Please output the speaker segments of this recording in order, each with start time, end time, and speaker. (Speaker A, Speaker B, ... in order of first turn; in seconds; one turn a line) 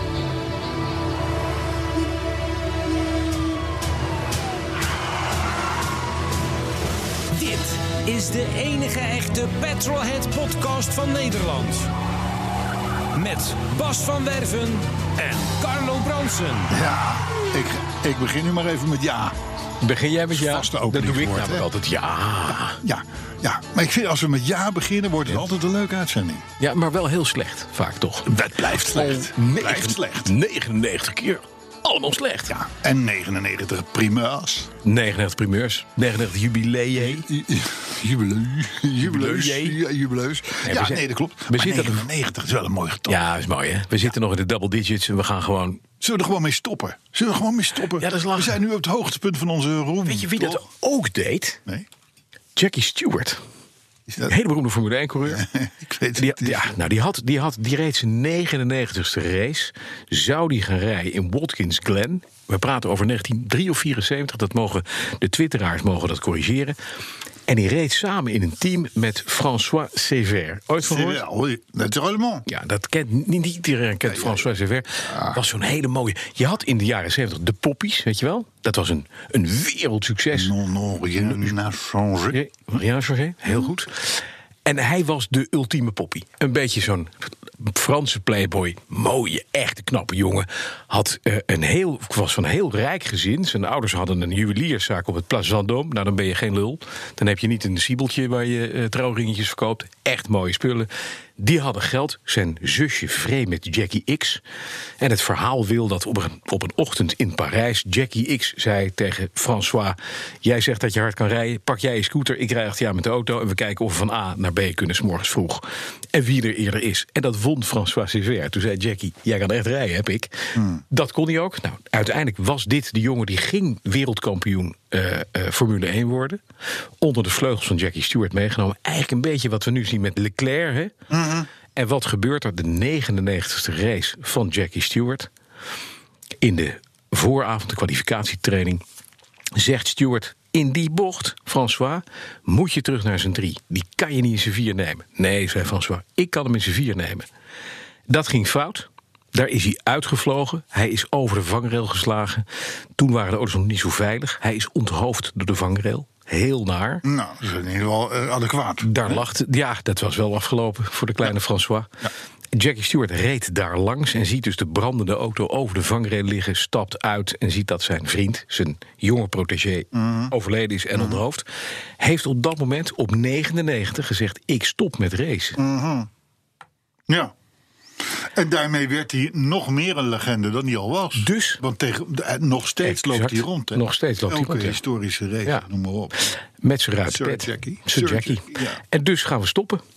Speaker A: 7.4-11.9
Speaker A: 13.2-16.7
Speaker B: 16.7-19.4
Speaker C: 19.8-22.8
Speaker B: 20.3-21.7
Speaker B: 22.8-26.4
Speaker C: 26.6-28.3
Speaker B: 28.2-30.3
Speaker C: 28.9-32.5
Speaker B: 32.5-34.7
Speaker C: 34.8-37.2
Speaker B: 37.0-43.2
Speaker C: 39.0-39.8
Speaker C: 40.6-42.0
Speaker C: 43.1-45.8
Speaker B: 46.0-50.6
Speaker C: 48.0-48.6
Speaker C: 50.0-51.6
Speaker C: 52.5-53.4
Speaker B: 54.1-54.4
Speaker C: 54.3-55.4
Speaker B: 55.2-56.7
Speaker C: 56.1-66.8
Speaker C: 67.5-71.2
Speaker B: 70.8-72.4
Speaker C: 72.5-80.5
Speaker B: 74.0-74.5
Speaker B: 75.0-75.4
Speaker B: 80.3-82.4
Speaker C: 81.2-81.5
Speaker C: 82.3-104.4
Speaker C: 105.0-126.4
Speaker B: 120.5-120.8
Speaker C: 127.0-130.9
Speaker B: 131.1-131.5
Speaker C: 131.7-135.3
Speaker C: 136.4-138.8
Speaker C: 139.5-147.2
Speaker C: 148.1-152.4
Speaker C: 153.0-157.0
Speaker B: 157.0-159.2
Speaker C: 158.8-161.9
Speaker C: 162.5-171.4
Speaker B: 169.9-170.3
Speaker B: 170.9-171.2
Speaker C: 172.0-175.6
Speaker B: 175.6-176.1
Speaker B: 177.1-177.3
Speaker B: 178.1-186.3
Speaker C: 181.2-181.6
Speaker C: 182.8-184.8
Speaker C: 186.3-189.8
Speaker B: 187.1-188.8